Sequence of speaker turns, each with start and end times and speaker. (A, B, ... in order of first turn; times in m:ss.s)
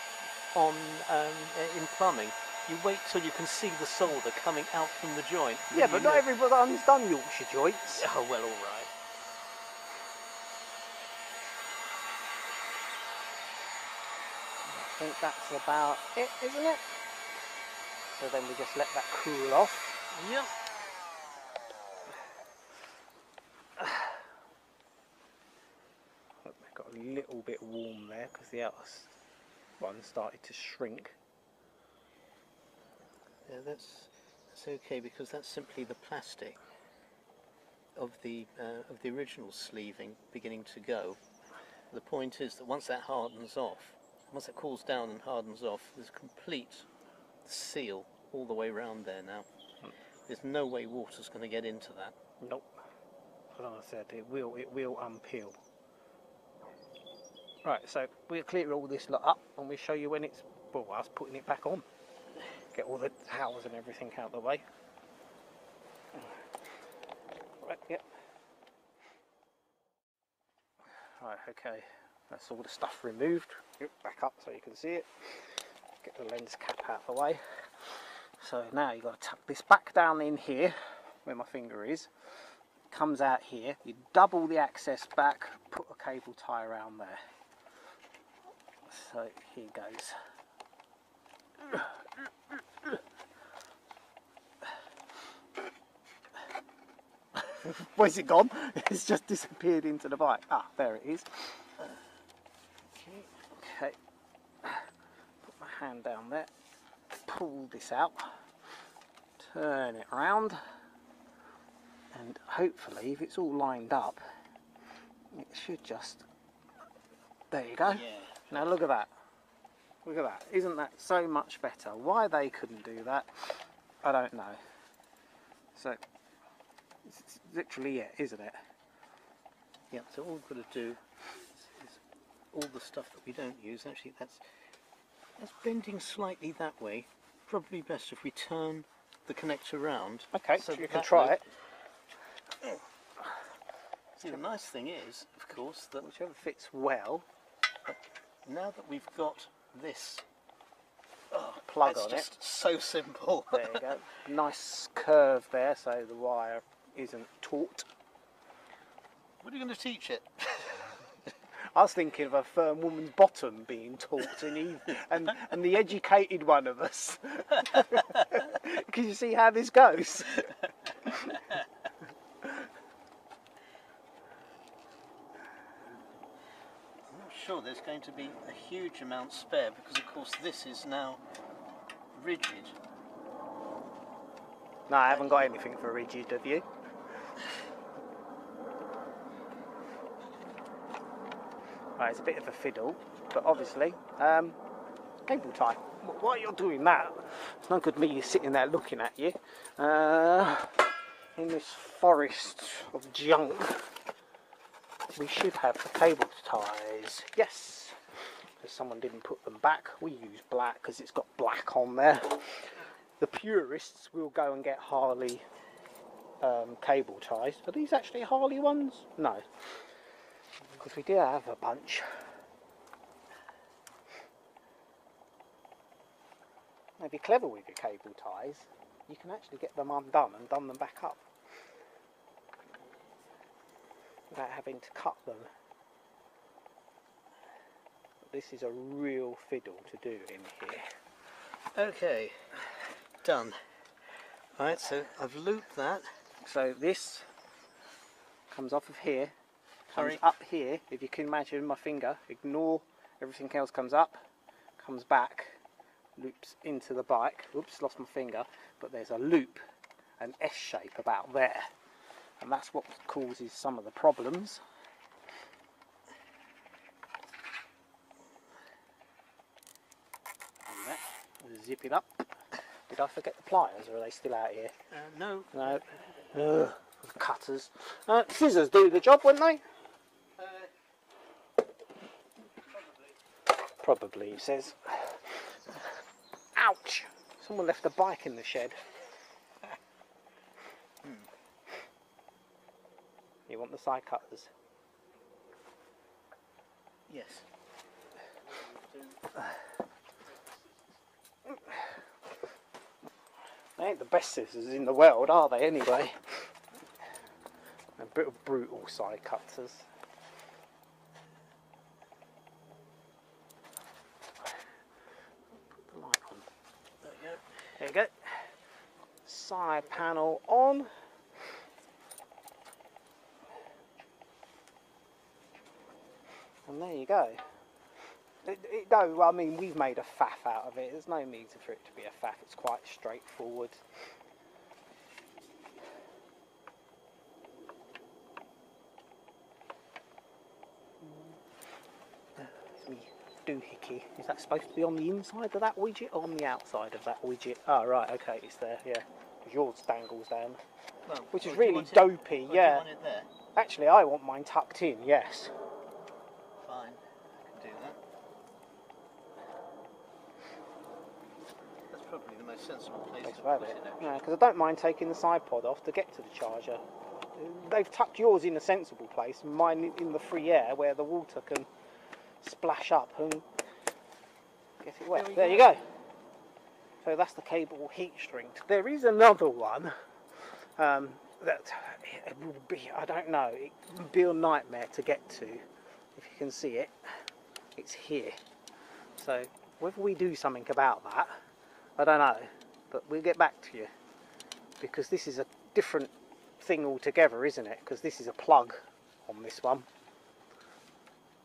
0:00.5-0:06.2 A
0:05.7-0:08.1 B
0:08.0-0:08.9 A
0:14.7-0:16.9 B
0:18.2-0:20.0 B
0:20.1-0:20.5 A
0:26.4-0:29.1 B
0:29.8-0:31.2 B
0:33.5-0:36.6 A
0:38.0-0:41.2 A
0:41.9-0:46.9 A
0:47.4-0:49.5 A
0:50.2-0:52.2 A
0:52.4-0:52.6 B
0:53.5-0:55.6 B
0:57.6-1:01.8 B
1:02.7-1:04.6 B
1:07.6-1:08.0 B
1:11.2-1:17.9 B
1:18.4-1:22.1 B
1:22.9-1:27.2 B
1:28.9-1:30.2 B
1:31.6-1:31.9 B
1:37.4-1:41.7 B
1:43.0-1:44.0 B
1:45.4-1:46.5 B
1:47.2-1:48.4 B
1:49.4-1:50.6 B
1:52.1-1:54.2 B
1:55.3-1:56.2 B
1:57.5-1:59.1 B
1:57.8-1:58.8 A
2:00.0-2:04.6 B
2:07.0-2:08.6 B
2:09.9-2:11.0 A
2:11.6-2:12.0 A
2:12.5-2:14.4 A
2:15.4-2:21.4 A
2:20.3-2:21.4 B
2:24.2-2:26.1 A
2:26.0-2:27.2 B
2:28.4-2:30.2 A
2:31.3-2:33.8 A
2:31.5-2:32.3 B
2:33.5-2:37.8 B
2:39.4-2:40.9 A
2:41.7-2:50.5 B
2:51.0-2:51.4 B
2:57.1-3:01.2 A
3:02.1-3:02.8 A
3:04.9-3:06.6 B
3:12.0-3:14.6 B
3:15.2-3:23.9 B
3:25.1-3:28.0 B
3:28.6-3:35.4 B
3:36.4-3:39.6 B
3:40.8-3:42.2 B
3:47.0-3:51.2 B
3:54.3-3:55.5 B
3:58.2-4:00.8 B
4:01.7-4:02.7 A
4:03.2-4:03.6 A
4:04.6-4:06.1 A
4:06.4-4:07.3 B
4:08.5-4:09.3 B
4:09.9-4:14.2 B
4:09.9-4:10.2 A
4:14.8-4:15.6 B
4:16.2-4:19.6 B
4:20.2-4:21.7 B
4:22.4-4:24.6 B
4:30.7-4:32.3 B
4:32.9-4:34.7 B
4:34.9-4:35.8 A
4:35.5-4:39.6 B
4:43.8-4:45.5 B
4:46.6-4:48.8 B
4:51.0-4:51.3 A
4:53.5-4:54.5 B
4:57.1-4:57.4 A
4:58.5-4:59.4 A
5:03.8-5:06.5 B
5:08.0-5:09.9 B
5:15.6-5:16.5 B
5:17.0-5:17.5 A
5:17.8-5:18.5 B
5:19.2-5:20.9 B
5:26.6-5:27.4 B
5:28.4-5:33.8 B
5:42.4-5:50.6 B
5:51.0-5:53.3 A
5:51.3-5:52.8 B
5:53.5-5:55.5 B
5:56.6-5:58.0 A
6:01.9-6:04.2 A
6:03.2-6:11.7 B
6:12.4-6:13.4 B
6:14.8-6:15.8 B
6:15.1-6:15.7 A
6:17.0-6:19.9 B
6:20.5-6:25.6 B
6:26.1-6:26.9 B
6:27.8-6:28.3 B
6:29.2-6:31.3 B
6:32.0-6:33.9 B
6:34.8-6:39.9 B